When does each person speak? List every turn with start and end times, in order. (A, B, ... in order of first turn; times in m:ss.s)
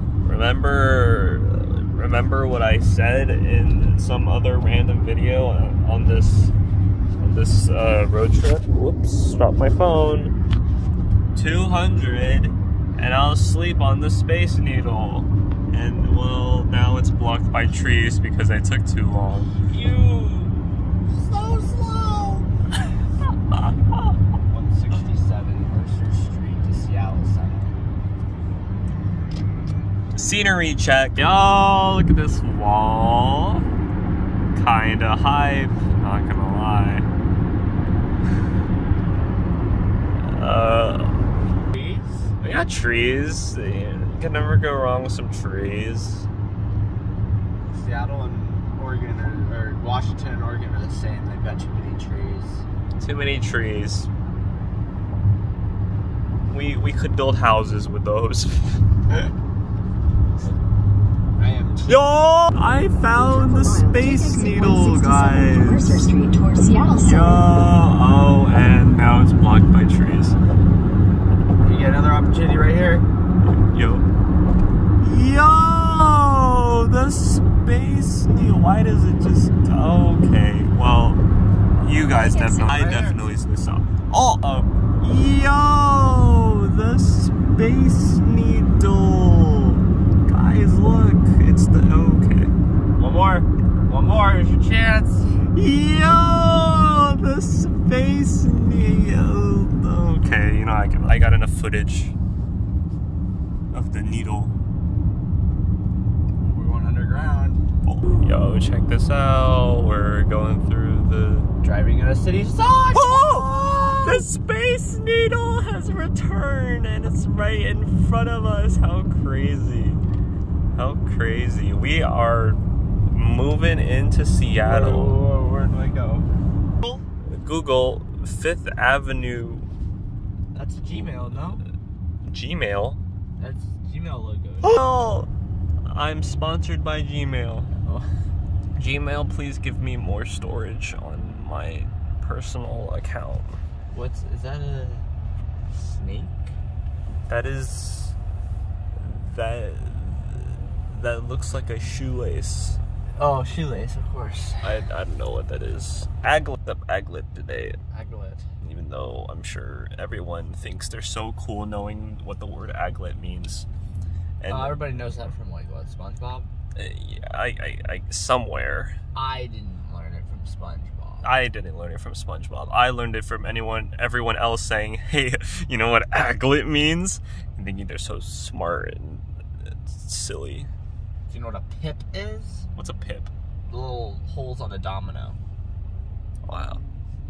0:00.2-0:06.5 A
0:07.2-0:10.4 A
0:11.3-0:19.6 A
0:19.7-0:22.5 B
0:23.5-0:24.2 A
0:24.5-0:27.8 B
0:30.2-0:33.7 A
0:34.6-0:37.1 A
0:40.2-0:41.2 A
0:41.7-0:42.3 B
0:42.4-0:46.3 A
0:47.7-0:52.7 B
0:53.0-0:54.1 A
0:56.5-0:58.8 A
1:01.4-1:02.0 B
1:01.9-1:06.1 A
1:02.9-1:07.5 C
1:07.0-1:10.4 A
1:11.6-1:13.1 B
1:13.5-1:14.1 A
1:15.0-1:21.2 A
1:21.8-1:32.5 A
1:22.2-1:22.7 C
1:22.5-1:23.2 B
1:33.0-1:35.4 B
1:35.5-1:42.2 A
1:43.7-1:44.6 A
1:46.4-1:47.6 B
1:47.9-1:51.5 A
1:51.6-1:54.2 B
1:52.9-2:00.0 A
2:00.8-2:05.2 A
2:04.6-2:06.3 B
2:07.3-2:09.7 A
2:10.5-2:11.6 B
2:10.9-2:11.4 A
2:12.3-2:13.0 A
2:13.4-2:14.8 B
2:14.6-2:15.3 A
2:15.9-2:17.7 A
2:17.7-2:18.1 B
2:18.8-2:23.6 A
2:23.9-2:25.1 B
2:25.7-2:26.6 B
2:27.3-2:28.2 A
2:29.0-2:32.8 A
2:33.2-2:34.7 B
2:34.6-2:37.8 A
2:37.9-2:38.5 B
2:38.6-2:43.7 A
2:44.4-2:45.0 A
2:44.5-2:46.5 B
2:46.8-2:49.0 A
2:49.2-2:51.3 B
2:51.2-2:59.3 A
2:59.8-3:00.7 A
3:01.3-3:02.7 B
3:02.8-3:03.3 A
3:03.7-3:05.4 B
3:06.5-3:06.8 A